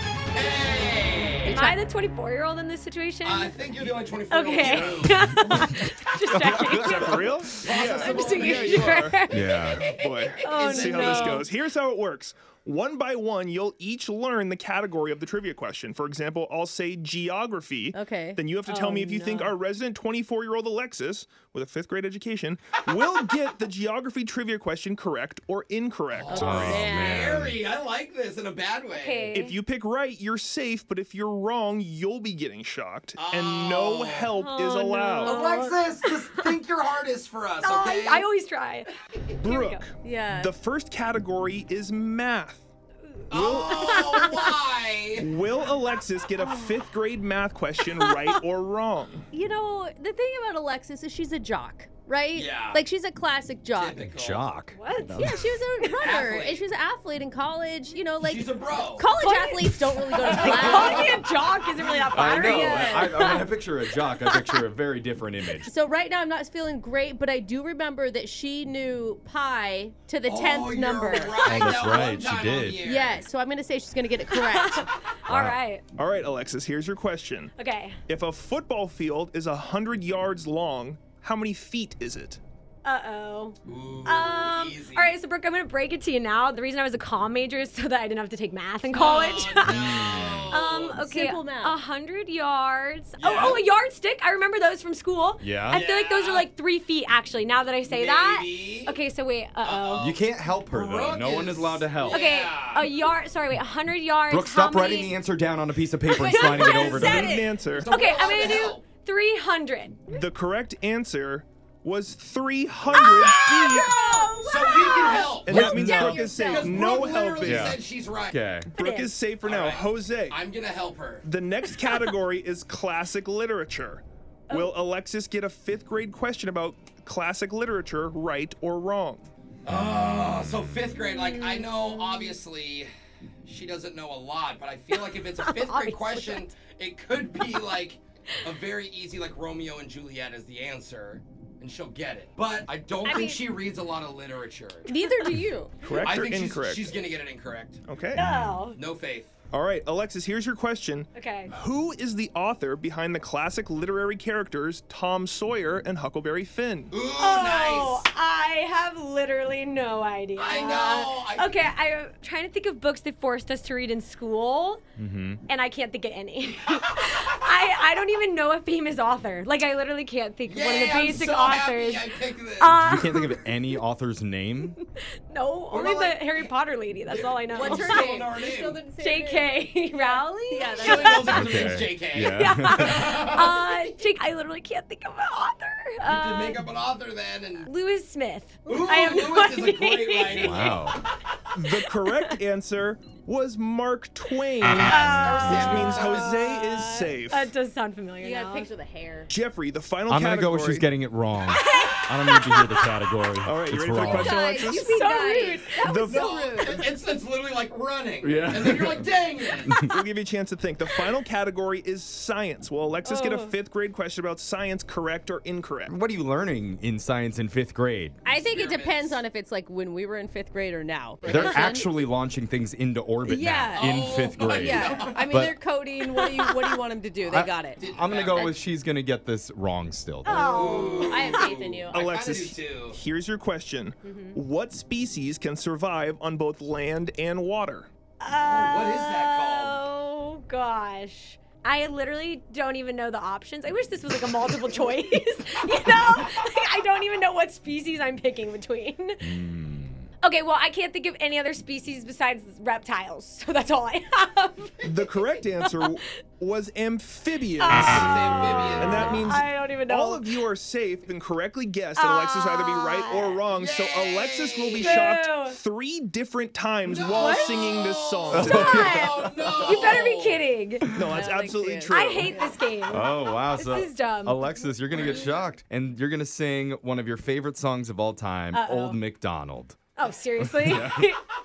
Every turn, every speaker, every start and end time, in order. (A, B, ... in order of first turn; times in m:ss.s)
0:00.3-0:01.6 A
0:01.5-0:01.8 B
0:01.5-0:03.5 C
0:03.2-0:05.6 A
0:04.3-0:09.9 C
0:04.6-0:05.0 D
0:06.3-0:07.4 E
0:06.5-0:26.9 D
0:07.5-0:11.5 A
0:09.3-0:09.8 E
0:10.4-0:11.5 C
0:17.9-0:18.4 B
0:18.7-0:19.5 C
0:26.1-0:29.4 A
0:26.3-0:27.4 B
0:26.4-0:27.6 E
0:28.9-0:29.6 C
0:29.3-0:35.4 D
0:33.2-0:34.3 A
0:34.4-0:36.6 C
0:35.2-0:38.3 A
0:37.6-0:39.8 C
0:39.4-0:42.6 D
0:40.0-0:40.5 B
0:43.3-0:45.3 A
0:43.3-0:44.2 D
0:43.6-0:44.5 C
0:45.2-0:49.3 D
0:48.0-0:48.3 C
0:49.3-0:54.1 B
0:52.3-0:52.8 A
0:53.7-0:54.5 A
0:54.1-0:55.4 E
0:54.7-0:56.0 C
0:55.1-1:01.2 B
0:56.0-0:56.6 A
0:58.2-0:59.1 A
0:59.2-1:03.5 C
1:00.2-1:01.2 A
1:02.1-1:05.7 E
1:02.3-1:03.1 B
1:04.1-1:04.6 C
1:05.6-1:12.0 B
1:10.2-1:13.2 A
1:11.5-1:12.8 E
1:12.8-1:14.9 B
1:14.3-1:15.8 C
1:15.3-1:15.6 E
1:16.0-1:17.5 D
1:17.6-1:18.0 C
1:18.1-1:22.4 D
1:22.8-1:40.2 C
1:23.6-1:25.2 A
1:28.9-1:31.0 A
1:29.7-1:30.6 E
1:30.9-1:31.8 B
1:33.2-1:33.6 A
1:35.4-1:35.8 E
1:35.7-1:36.5 A
1:37.9-1:38.9 A
1:39.6-1:40.2 A
1:40.0-1:42.2 E
1:40.7-1:42.9 A
1:42.1-1:45.2 C
1:44.3-1:47.3 E
1:46.1-1:50.2 C
1:46.4-1:48.0 D
1:47.7-1:48.8 A
1:50.1-1:53.9 D
1:53.0-1:53.4 A
1:53.0-1:55.3 C
1:53.1-1:57.5 B
1:54.4-1:55.7 A
1:55.4-1:57.8 D
1:55.5-1:56.2 E
1:56.5-1:58.4 A
1:57.4-1:58.7 E
1:58.7-2:00.4 D
1:58.8-1:59.1 C
1:59.4-2:01.3 A
2:01.2-2:09.3 D
2:09.6-2:12.9 A
2:11.0-2:12.4 C
2:13.4-2:24.9 A
2:15.1-2:16.5 C
2:23.0-2:23.4 B
2:24.9-2:25.8 B
2:24.9-2:25.3 C
2:25.8-2:27.0 D
2:26.0-2:27.8 A
2:27.9-2:28.2 D
2:28.2-2:28.8 C
2:28.2-2:28.5 E
2:28.7-2:29.3 A
2:29.5-2:37.0 D
2:31.1-2:31.5 C
2:36.9-2:38.0 A
2:37.2-2:44.8 C
2:40.4-2:41.5 A
2:45.0-2:45.4 E
2:45.5-2:53.5 C
2:50.5-2:52.8 A
2:52.8-2:54.8 E
2:55.3-2:58.1 C
2:55.7-2:56.5 A
2:57.1-2:58.8 A
2:57.5-3:01.4 B
2:59.0-3:06.7 C
3:00.7-3:03.7 A
3:01.3-3:03.2 E
3:06.0-3:07.7 A
3:07.6-3:10.9 C
3:08.7-3:09.2 B
3:08.7-3:10.8 A
3:10.4-3:11.0 E
3:11.5-3:17.5 D
3:12.0-3:12.3 C
3:14.7-3:18.7 C
3:15.0-3:16.3 A
3:15.4-3:15.9 E
3:18.2-3:19.3 B
3:19.3-3:20.9 D
3:20.1-3:24.4 E
3:21.5-3:22.9 C
3:23.4-3:25.0 D
3:24.2-3:26.9 B
3:24.5-3:26.1 C
3:25.8-3:26.9 D
3:26.1-3:29.8 A
3:28.2-3:29.1 E
3:29.8-3:36.0 D
3:33.1-3:33.5 C
3:35.9-3:38.2 E
3:38.2-3:41.9 B
3:38.3-3:39.2 A
3:41.2-3:45.6 E
3:43.2-3:47.8 B
3:43.7-3:45.3 A
3:47.3-3:50.5 E
3:47.8-3:48.6 A
3:50.3-3:51.6 C
3:50.4-3:53.0 A
3:50.7-3:52.2 B
3:51.9-3:57.9 D
3:54.1-3:54.3 B
3:58.2-4:09.3 C
3:58.4-3:59.8 A
4:09.2-4:10.0 E
4:10.2-4:14.8 C
4:14.8-4:18.2 D
4:15.6-4:16.0 C
4:17.6-4:20.3 C
4:17.7-4:19.2 A
4:18.7-4:29.0 D
4:22.0-4:23.4 C
4:23.5-4:25.1 A
4:24.8-4:25.6 C
4:26.9-4:30.4 A
4:27.2-4:27.7 C
4:28.3-4:29.8 E
4:28.4-4:30.9 C
4:30.9-4:32.5 D
4:31.0-4:32.5 B
4:31.9-4:34.6 C
4:32.9-4:39.8 E
4:34.9-4:35.5 A
4:38.5-4:39.0 C
4:40.0-4:41.2 C
4:40.4-4:41.0 E